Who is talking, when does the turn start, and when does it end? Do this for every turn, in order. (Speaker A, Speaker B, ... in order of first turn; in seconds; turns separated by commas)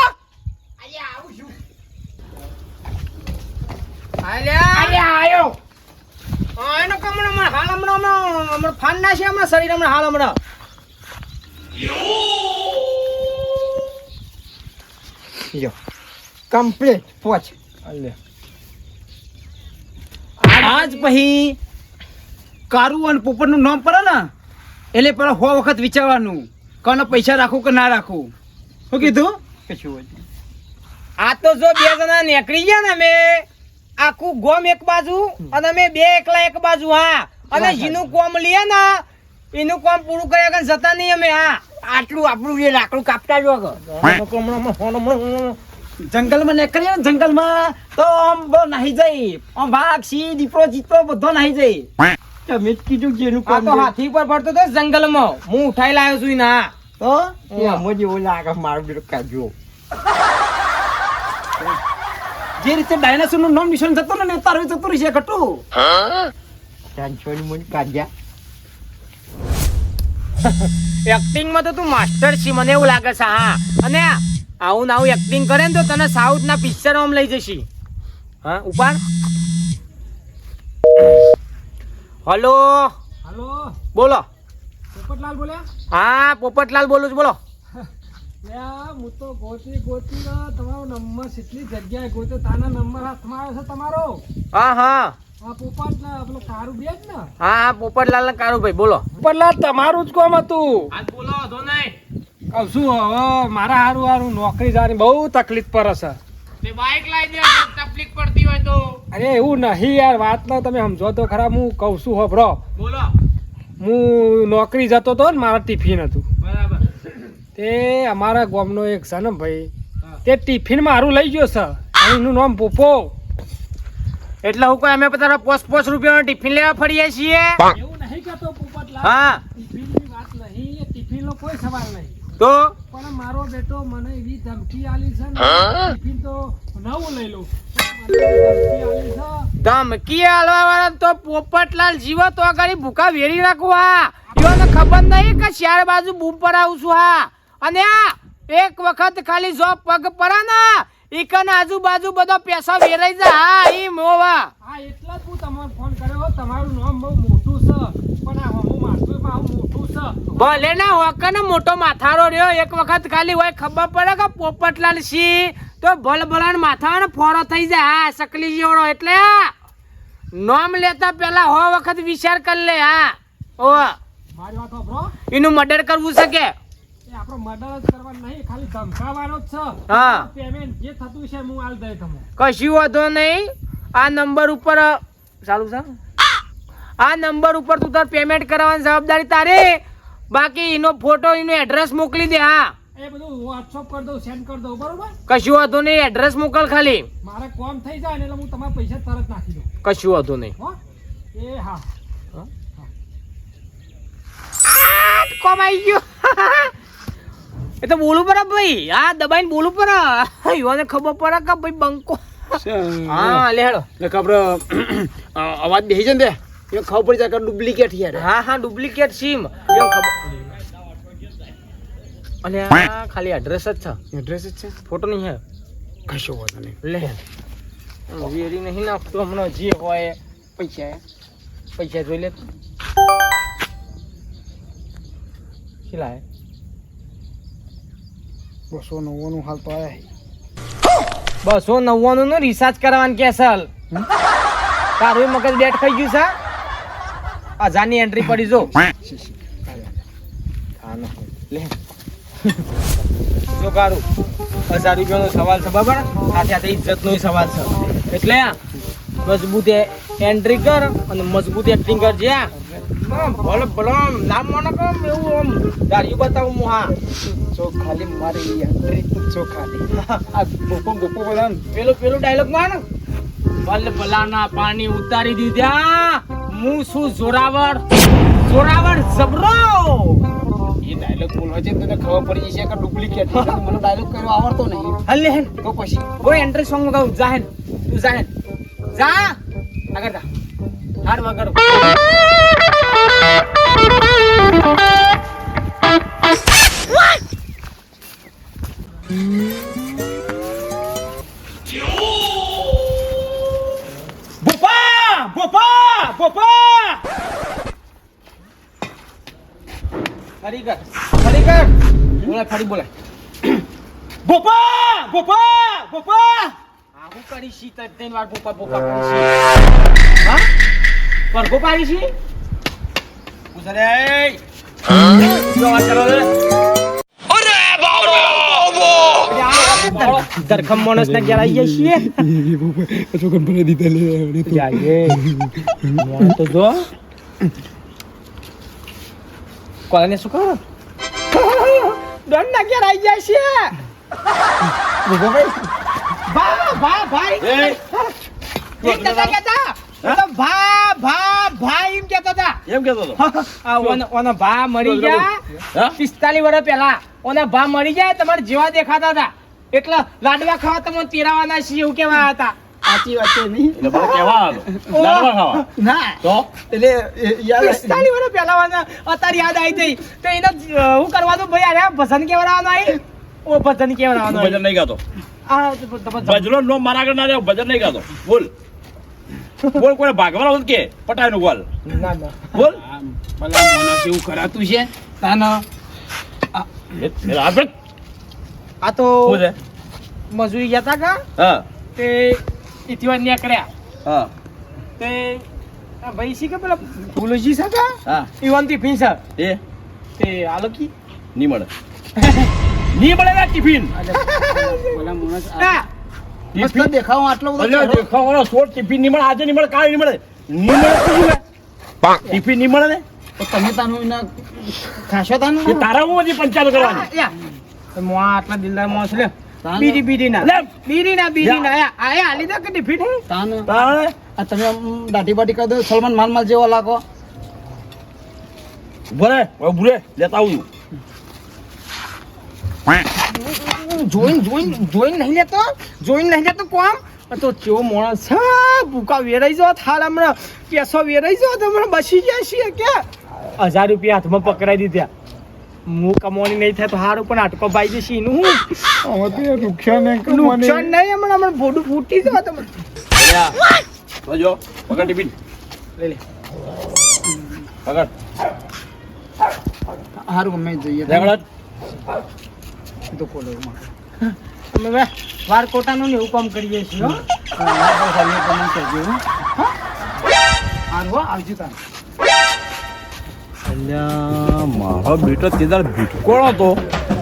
Speaker A: 0.8-1.6, Speaker B: 4.2-5.5, Speaker B: 6.6-10.4, Speaker A: 16.5-17.5, Speaker B: 17.9-18.1, Speaker B: 20.4-21.1, Speaker C: 20.6-21.6, Speaker C: 22.7-24.3, Speaker C: 24.9-28.3, Speaker C: 28.9-29.3, Speaker A: 29.0-30.2, Speaker B: 31.2-33.5, Speaker B: 34.0-41.6, Speaker A: 37.5-38.0, Speaker A: 41.8-43.8, Speaker B: 43.8-45.6, Speaker C: 46.1-51.9, Speaker A: 52.5-53.9, Speaker B: 53.5-56.7, Speaker C: 57.0-57.4, Speaker B: 57.5-57.8, Speaker A: 57.5-59.5, Speaker C: 62.6-65.6, Speaker A: 66.9-68.1, Speaker B: 70.4-77.7, Speaker B: 78.4-79.0, Speaker B: 82.2-83.0, Speaker D: 83.2-83.8, Speaker B: 83.9-84.2, Speaker D: 84.9-85.7, Speaker B: 85.9-87.4, Speaker D: 88.4-94.2, Speaker B: 94.5-95.1, Speaker D: 95.4-97.3, Speaker B: 97.4-99.0, Speaker D: 99.1-100.9, Speaker B: 100.9-101.9, Speaker D: 102.5-106.2, Speaker B: 106.6-109.0, Speaker D: 109.1-112.6, Speaker B: 112.8-113.1, Speaker D: 113.8-116.2, Speaker B: 116.4-116.8, Speaker D: 117.6-119.7, Speaker D: 120.2-123.1, Speaker B: 124.4-127.6, Speaker D: 127.7-132.2, Speaker B: 129.0-129.4, Speaker B: 132.4-132.7, Speaker D: 132.9-139.5, Speaker B: 139.6-154.5, Speaker D: 154.6-160.4, Speaker B: 160.3-169.5, Speaker B: 170.3-173.9, Speaker D: 174.3-175.1, Speaker B: 175.3-176.5, Speaker D: 177.1-182.2, Speaker B: 179.9-180.3, Speaker B: 182.4-185.9, Speaker B: 187.0-192.8, Speaker D: 192.9-195.2, Speaker B: 195.2-197.1, Speaker D: 197.2-199.7, Speaker B: 199.8-200.5, Speaker D: 201.3-201.8, Speaker B: 204.6-206.7, Speaker B: 207.8-212.2, Speaker C: 212.6-213.4, Speaker B: 213.1-213.9, Speaker C: 214.0-218.2, Speaker B: 218.1-220.5, Speaker B: 222.4-224.0, Speaker C: 224.1-224.7, Speaker B: 224.8-225.4, Speaker C: 226.1-226.7, Speaker B: 226.8-227.2, Speaker B: 228.1-230.2, Speaker B: 231.8-232.5, Speaker B: 235.9-236.2, Speaker C: 238.7-240.0, Speaker B: 241.4-243.7, Speaker B: 245.0-246.3, Speaker B: 247.6-248.8, Speaker C: 249.1-249.8, Speaker B: 250.8-251.7, Speaker B: 253.5-254.0, Speaker B: 254.7-258.6, Speaker B: 259.2-266.9, Speaker C: 267.1-269.8, Speaker B: 269.9-270.2, Speaker C: 270.3-271.6, Speaker B: 271.7-272.8, Speaker B: 273.6-277.8, Speaker B: 278.4-280.2, Speaker C: 280.8-285.0, Speaker B: 283.3-283.6, Speaker B: 285.1-285.5, Speaker C: 285.5-286.1, Speaker B: 286.1-288.3, Speaker B: 288.9-289.4, Speaker B: 289.9-290.2, Speaker B: 291.0-291.9, Speaker B: 304.4-307.0, Speaker B: 310.4-312.9, Speaker B: 314.2-319.3, Speaker B: 321.3-322.1, Speaker E: 323.5-324.4, Speaker E: 325.0-326.3, Speaker B: 329.2-332.3, Speaker C: 331.0-331.6, Speaker C: 332.2-334.6, Speaker B: 334.4-335.2, Speaker B: 336.0-336.9, Speaker B: 339.9-340.6, Speaker B: 341.3-343.7, Speaker A: 345.1-345.5, Speaker B: 346.3-347.9, Speaker E: 347.4-347.8, Speaker B: 348.8-352.6, Speaker E: 348.8-349.3, Speaker E: 352.7-353.2, Speaker B: 353.2-355.4, Speaker B: 355.9-362.6, Speaker C: 362.8-364.1, Speaker E: 363.7-365.6, Speaker B: 364.9-365.6, Speaker C: 365.7-368.1, Speaker E: 366.2-366.5, Speaker B: 367.6-374.6, Speaker E: 374.2-375.0, Speaker B: 375.5-376.5, Speaker E: 376.2-378.5, Speaker E: 379.7-381.6, Speaker B: 381.9-382.5, Speaker E: 382.5-382.8, Speaker C: 382.9-385.6, Speaker E: 387.0-387.7, Speaker B: 388.8-389.4, Speaker E: 389.2-389.6, Speaker B: 390.3-391.2, Speaker E: 391.4-391.6, Speaker B: 391.9-393.7, Speaker E: 394.0-394.3, Speaker B: 395.0-395.4, Speaker B: 396.0-399.2, Speaker B: 400.2-400.9, Speaker E: 401.3-401.7, Speaker E: 402.9-403.9, Speaker B: 404.1-405.0, Speaker C: 404.3-405.7, Speaker B: 405.6-405.9, Speaker C: 406.5-408.1, Speaker E: 406.6-406.9, Speaker B: 406.6-406.9, Speaker E: 407.6-411.4, Speaker E: 412.3-413.0, Speaker C: 413.4-414.3, Speaker C: 414.8-415.8, Speaker E: 415.6-417.1, Speaker B: 416.7-417.3, Speaker B: 417.9-423.2, Speaker C: 419.6-420.0, Speaker E: 420.4-420.7, Speaker C: 423.3-427.0, Speaker E: 423.7-424.2, Speaker E: 429.1-430.6, Speaker B: 433.2-443.0, Speaker B: 443.6-445.1, Speaker B: 445.9-448.6, Speaker C: 449.1-450.9, Speaker B: 450.2-452.8, Speaker E: 453.2-453.6, Speaker E: 454.2-455.3, Speaker C: 460.2-461.3, Speaker E: 461.1-461.4, Speaker C: 463.1-463.9, Speaker B: 464.2-467.2, Speaker C: 467.6-469.2, Speaker C: 470.9-471.8, Speaker E: 473.7-476.8